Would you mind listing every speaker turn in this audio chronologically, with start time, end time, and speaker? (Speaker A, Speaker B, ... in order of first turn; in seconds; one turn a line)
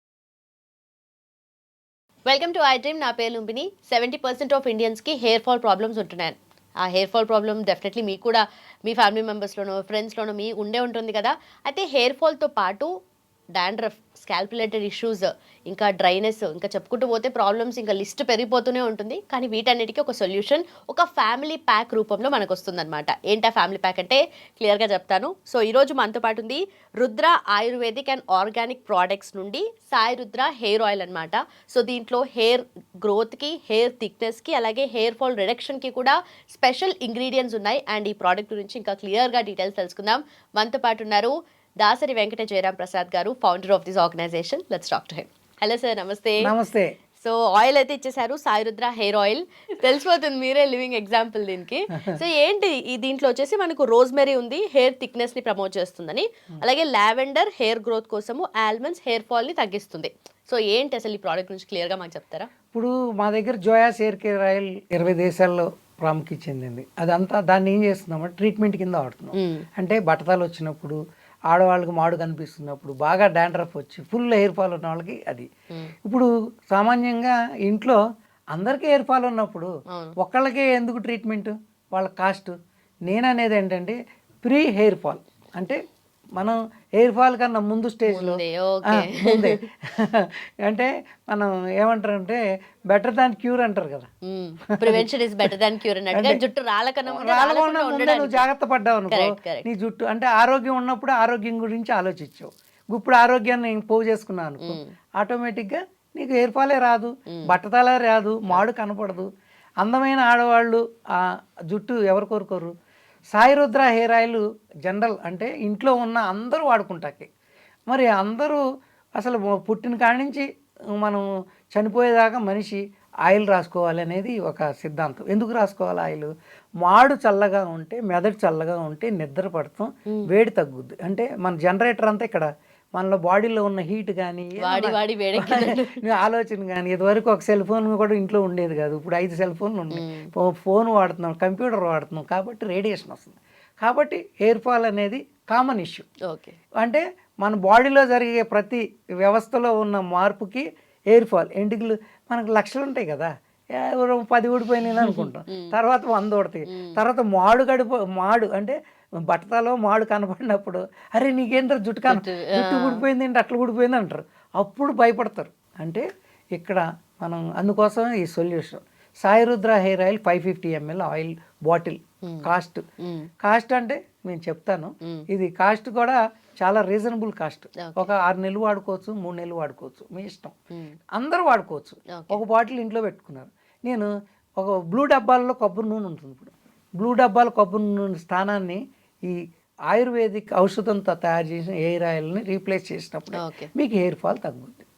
Speaker A: 2.3-12.9
Speaker A: 13.6-46.5
Speaker B: 46.4-46.9
Speaker A: 47.2-62.5
Speaker B: 62.7-75.5
Speaker A: 69.4-69.7
Speaker B: 76.0-78.0
Speaker B: 78.5-82.5
Speaker B: 83.1-85.8
Speaker B: 86.4-94.1
Speaker A: 88.1-89.6
Speaker A: 94.2-98.5
Speaker B: 96.1-96.4
Speaker B: 97.1-109.3
Speaker A: 99.1-99.7
Speaker B: 109.8-110.8
Speaker B: 111.7-112.7
Speaker B: 113.3-117.3
Speaker B: 117.9-118.6
Speaker B: 119.2-120.5
Speaker B: 121.0-126.3
Speaker B: 126.8-146.1
Speaker A: 134.6-136.0
Speaker A: 140.0-140.3
Speaker A: 146.3-146.6
Speaker B: 146.8-158.8
Speaker A: 155.0-155.7
Speaker A: 156.7-157.0
Speaker B: 159.3-166.0
Speaker A: 162.1-163.0
Speaker B: 166.6-172.8
Speaker A: 173.0-173.3
Speaker B: 173.4-180.6
Speaker A: 177.8-178.1
Speaker B: 181.2-189.4
Speaker A: 182.2-182.4
Speaker B: 189.9-194.9
Speaker A: 193.4-193.7